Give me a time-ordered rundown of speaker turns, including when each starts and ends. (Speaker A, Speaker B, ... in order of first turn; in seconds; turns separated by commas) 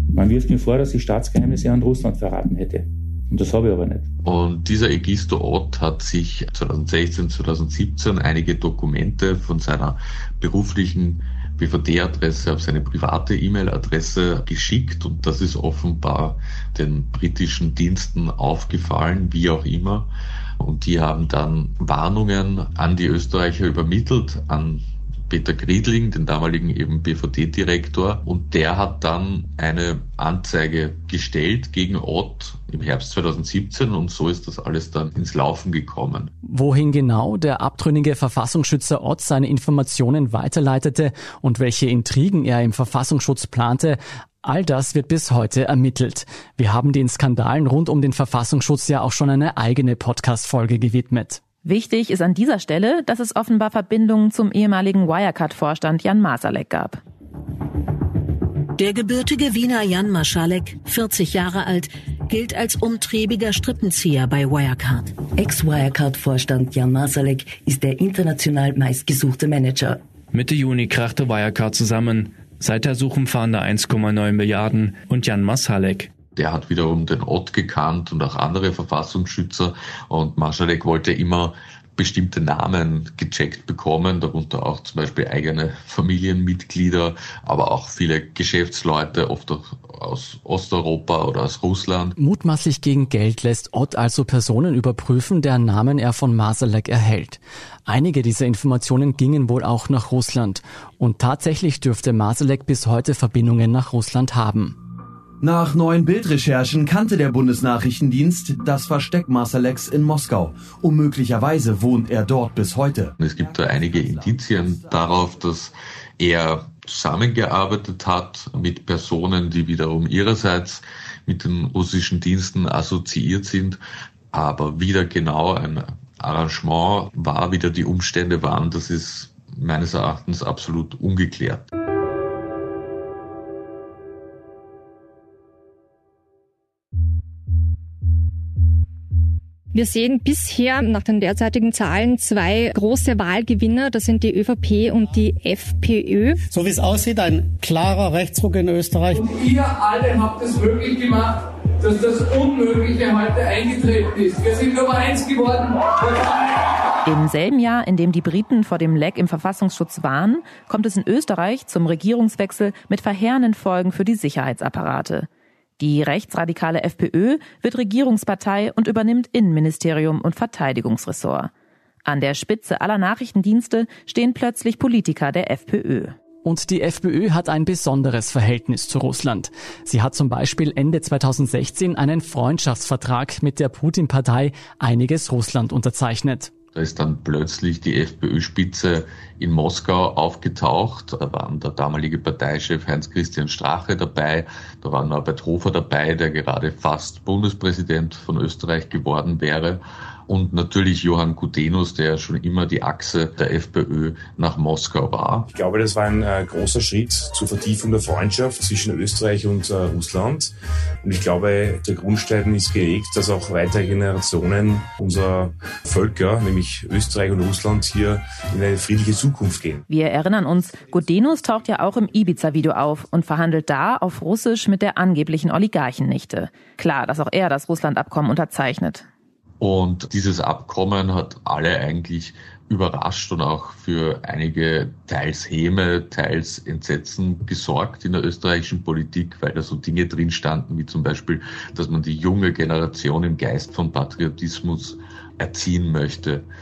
Speaker A: 0.1-4.1, Speaker B: 4.2-36.3, Speaker C: 36.4-51.4, Speaker D: 51.6-57.0, Speaker E: 58.8-65.2, Speaker F: 65.3-70.0, Speaker G: 70.3-76.1, Speaker B: 76.3-92.1, Speaker C: 92.2-104.8, Speaker H: 105.4-113.1, Speaker B: 113.2-123.8, Speaker B: 124.3-131.7, Speaker I: 139.7-146.4, Speaker J: 146.5-149.2, Speaker K: 149.3-156.1, Speaker D: 157.1-165.3, Speaker D: 165.8-171.5, Speaker D: 172.0-176.1, Speaker C: 176.4-186.5, Speaker B: 186.7-205.5, Speaker L: 205.5-219.8, Speaker D: 219.9-229.0, Speaker B: 229.6-246.4